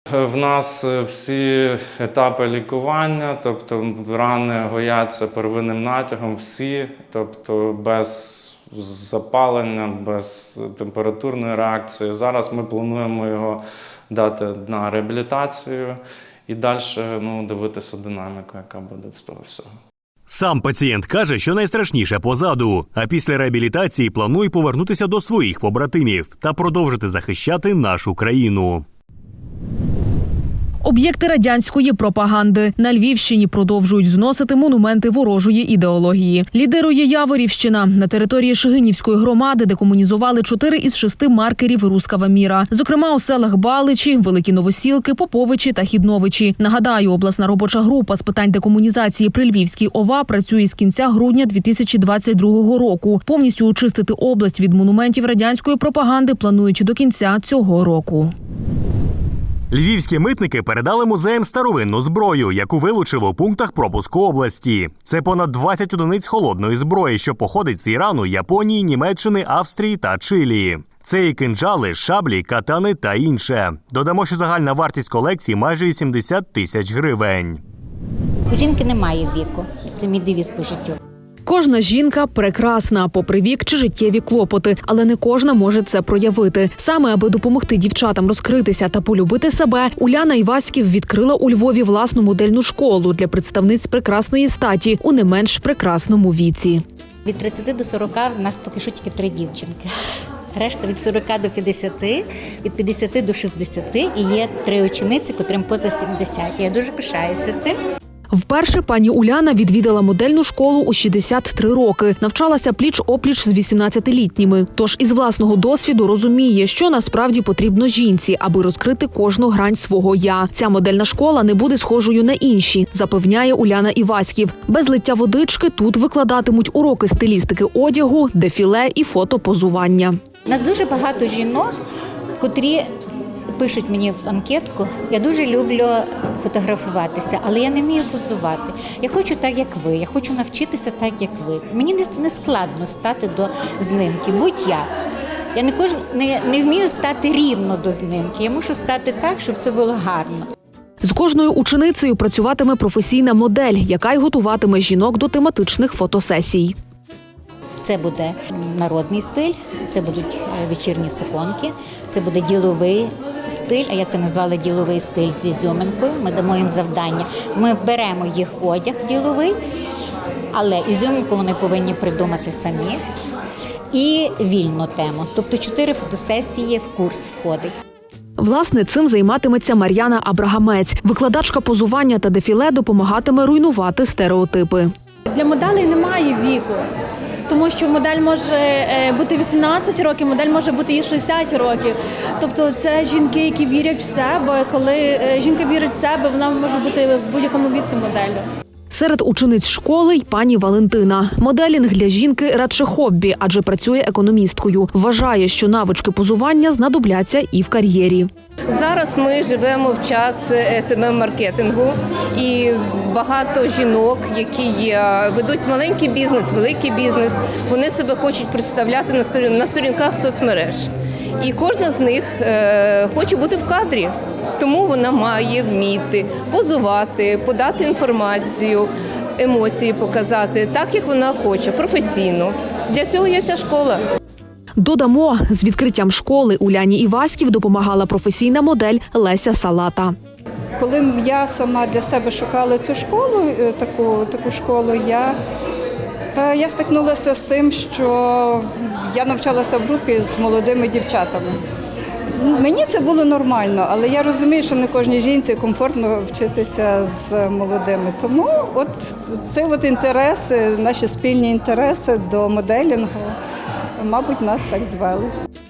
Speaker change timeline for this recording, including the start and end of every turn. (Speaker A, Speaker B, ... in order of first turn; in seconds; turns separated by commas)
Speaker A: 0.1-19.7, Speaker B: 20.3-28.9, Speaker C: 30.8-58.3, Speaker B: 59.7-77.6, Speaker D: 78.5-81.0, Speaker C: 81.5-96.8, Speaker D: 97.2-99.9, Speaker D: 100.5-107.8, Speaker C: 108.3-130.2, Speaker D: 130.5-131.7, Speaker D: 132.4-132.9, Speaker D: 133.5-144.9, Speaker D: 145.5-150.5, Speaker C: 151.0-156.7, Speaker D: 157.8-169.6, Speaker D: 170.5-173.0, Speaker D: 173.9-177.7, Speaker C: 178.4-184.9, Speaker E: 185.3-186.8, Speaker E: 187.5-198.4, Speaker C: 198.9-208.3, Speaker F: 208.7-220.9, Speaker F: 221.4-228.9, Speaker F: 229.4-234.0, Speaker C: 234.8-240.1, Speaker G: 240.8-245.4, Speaker G: 246.3-251.6, Speaker G: 252.4-263.4, Speaker G: 264.0-265.3